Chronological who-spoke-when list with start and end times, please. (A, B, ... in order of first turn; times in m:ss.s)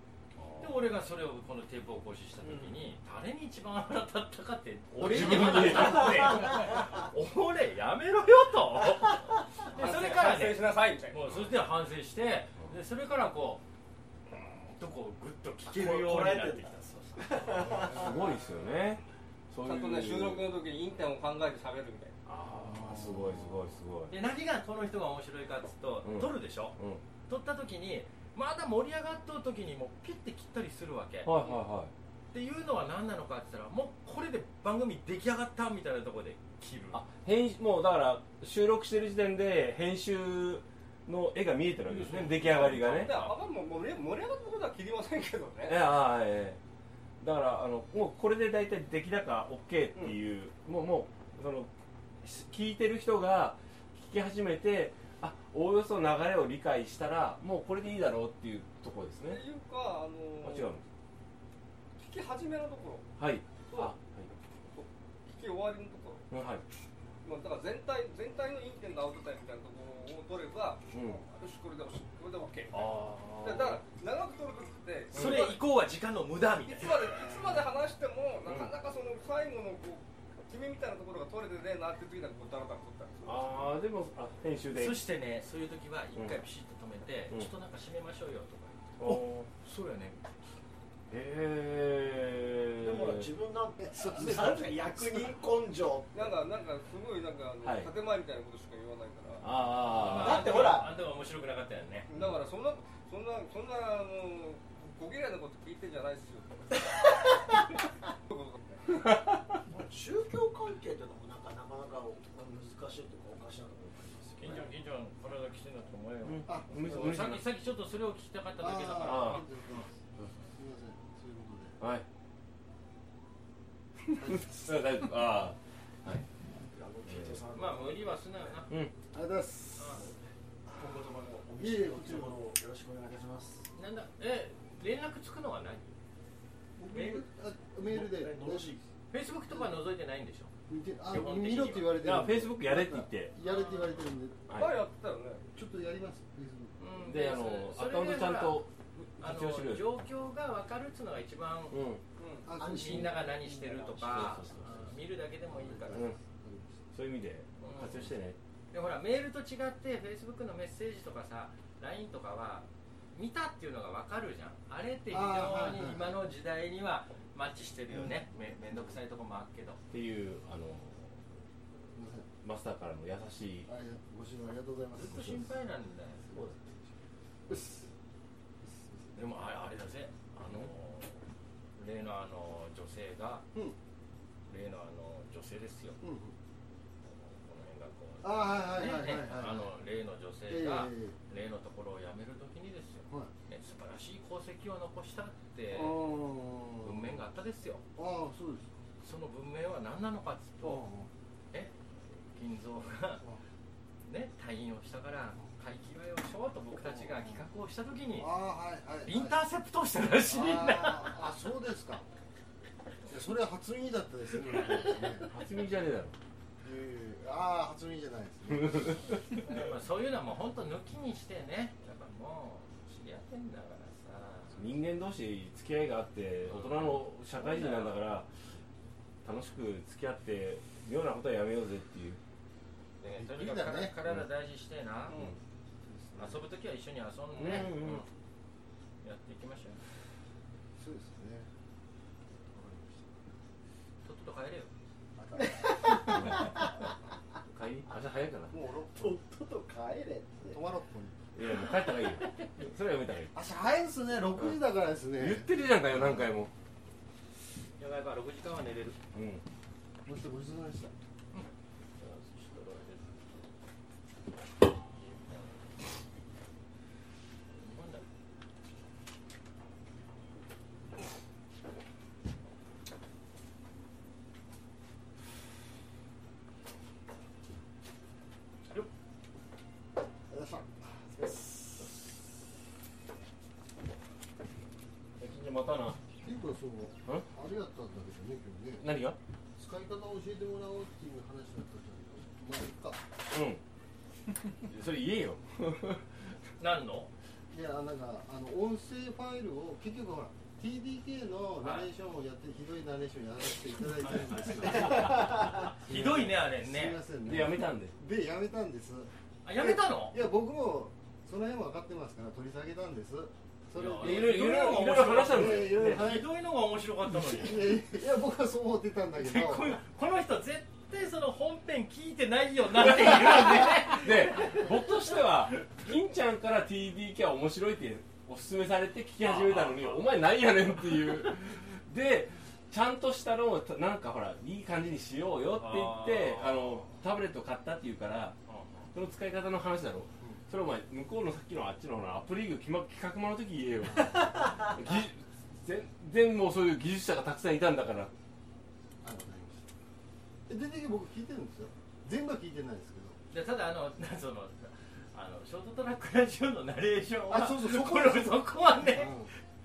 0:00.4-0:00.7 A
0:00.6-0:13.6 B
0:02.4-0:02.7 C
0:05.0-0:06.5 A
0:05.8-0:06.6 C
0:09.7-0:11.3 D
0:14.4-0:17.3 B
0:15.7-0:18.2 C
0:17.9-0:20.4 A
0:19.6-0:22.1 D
0:22.2-0:24.1 A
0:22.6-0:23.5 C
0:24.1-0:26.8 B
0:26.0-0:27.0 A
0:27.3-0:31.3 B
0:31.2-0:31.9 A
0:32.3-0:37.0 B
0:36.9-0:43.1 A
0:41.9-0:43.4 B
0:42.7-0:45.8 D
0:45.7-0:46.6 A
0:47.2-0:51.7 A
0:52.2-0:59.4 A
0:59.3-1:00.7 D
1:00.4-1:00.8 A
1:02.0-1:03.0 D
1:03.2-1:04.3 A
1:03.7-1:03.9 D
1:04.7-1:06.3 D
1:06.3-1:06.6 A
1:07.2-1:15.6 D
1:10.9-1:11.2 A
1:12.7-1:13.8 A
1:15.1-1:15.5 A
1:15.1-1:17.2 B
1:16.6-1:23.6 D
1:18.4-1:18.7 A
1:23.2-1:25.0 A
1:24.7-1:29.0 B
1:29.0-1:29.5 A
1:29.6-1:30.2 B
1:31.1-1:33.3 A
1:32.8-1:36.4 C
1:33.8-1:35.1 E
1:36.1-1:39.5 D
1:37.6-1:37.9 A
1:39.4-1:40.8 A
1:39.9-1:42.1 B
1:40.0-1:40.9 C
1:42.1-1:46.8 D
1:48.3-1:48.8 D
1:49.7-1:54.7 C
1:54.4-1:59.8 B
1:56.2-1:57.4 A
1:56.4-1:57.3 E
1:58.6-1:59.9 E
1:59.0-1:59.4 A
2:00.6-2:01.8 E
2:01.8-2:02.0 A
2:04.2-2:04.8 E
2:04.2-2:06.2 A
2:06.7-2:08.3 C
2:07.0-2:07.4 A
2:07.5-2:08.8 B
2:09.1-2:10.0 E
2:09.8-2:10.0 B
2:10.0-2:13.7 C
2:11.6-2:12.4 E
2:13.7-2:15.8 B
2:16.8-2:18.8 E
2:16.9-2:17.2 B
2:17.8-2:18.8 C
2:19.1-2:20.5 B
2:20.7-2:24.4 E
2:21.1-2:22.0 B
2:22.0-2:23.3 A
2:23.4-2:24.0 B
2:24.5-2:24.8 A
2:24.5-2:25.4 D
2:25.5-2:27.0 E
2:26.8-2:28.6 B
2:27.0-2:30.0 A
2:29.2-2:31.8 B
2:31.7-2:32.0 A
2:32.2-2:32.5 D
2:32.4-2:33.4 E
2:32.6-2:36.1 B
2:32.8-2:34.6 C
2:34.0-2:34.8 A
2:34.6-2:34.9 E
2:35.5-2:36.9 E
2:35.9-2:36.2 A
2:36.9-2:38.4 A
2:37.6-2:38.1 B
2:38.7-2:49.8 B
2:45.1-2:46.2 E
2:49.9-2:51.2 A
2:51.9-2:52.3 E
2:52.4-2:53.7 A
2:53.6-2:55.5 E
2:54.9-2:56.2 B
2:56.3-2:56.9 E
2:57.5-2:57.9 E
2:58.6-2:59.4 E
2:59.1-3:01.2 B
3:00.4-3:00.7 A
3:01.8-3:03.4 B
3:04.5-3:06.0 B
3:06.0-3:06.4 E
3:07.0-3:16.0 B
3:08.2-3:09.7 E
3:10.5-3:11.2 E
3:15.7-3:17.2 E
3:16.8-3:17.8 B
3:18.0-3:18.7 E
3:19.0-3:20.8 B
3:20.6-3:21.1 E
3:22.3-3:23.2 B
3:24.0-3:28.3 B
3:26.9-3:27.4 E
3:28.2-3:29.4 E
3:29.0-3:31.2 B
3:30.3-3:32.0 E
3:33.0-3:35.3 E
3:35.3-3:36.1 A
3:36.6-3:39.1 E
3:38.5-3:39.0 A
3:39.4-3:44.6 B
3:44.5-3:48.3 A
3:46.5-3:48.0 B
3:49.2-3:52.2 A
3:53.0-3:55.2 B
3:53.1-3:54.0 E
3:55.1-3:55.4 D
3:55.8-3:56.4 E
3:56.2-3:58.0 B
3:57.3-3:58.0 A
3:59.0-3:59.8 B
4:00.8-4:01.5 E
4:02.5-4:03.1 E
4:04.0-4:04.7 B
4:05.2-4:06.6 E
4:05.4-4:06.5 C
4:06.1-4:06.7 A
4:07.5-4:08.5 A
4:08.5-4:10.6 C
4:08.5-4:09.2 E
4:10.5-4:11.2 E
4:11.3-4:13.3 A
4:13.3-4:15.5 E
4:15.2-4:16.5 A
4:17.8-4:19.0 B
4:19.1-4:19.4 A
4:20.0-4:20.9 E
4:22.0-4:23.2 B
4:24.9-4:25.7 B
4:27.5-4:28.1 B
4:40.3-4:42.0 E
4:45.2-4:46.0 A
4:46.2-4:48.9 E
4:48.8-4:49.2 A
4:49.6-4:53.0 E
4:53.3-4:53.6 A
4:54.6-4:56.0 A
4:56.6-4:57.1 B
4:57.5-5:16.3 E
5:01.6-5:01.9 B
5:04.0-5:07.0 B
5:07.2-5:07.9 A
5:09.4-5:10.2 B
5:13.7-5:17.8 B
5:14.0-5:16.1 A
5:17.1-5:19.8 E
5:19.2-5:24.7 B
5:22.8-5:38.4 A
5:29.2-5:30.1 B
5:35.5-5:36.9 B
5:38.5-5:38.9 B
5:38.9-5:48.1 A
5:43.9-5:44.8 E
5:49.0-5:49.6 E
5:50.5-5:53.2 E
5:53.3-5:59.2 B
5:57.3-5:59.3 E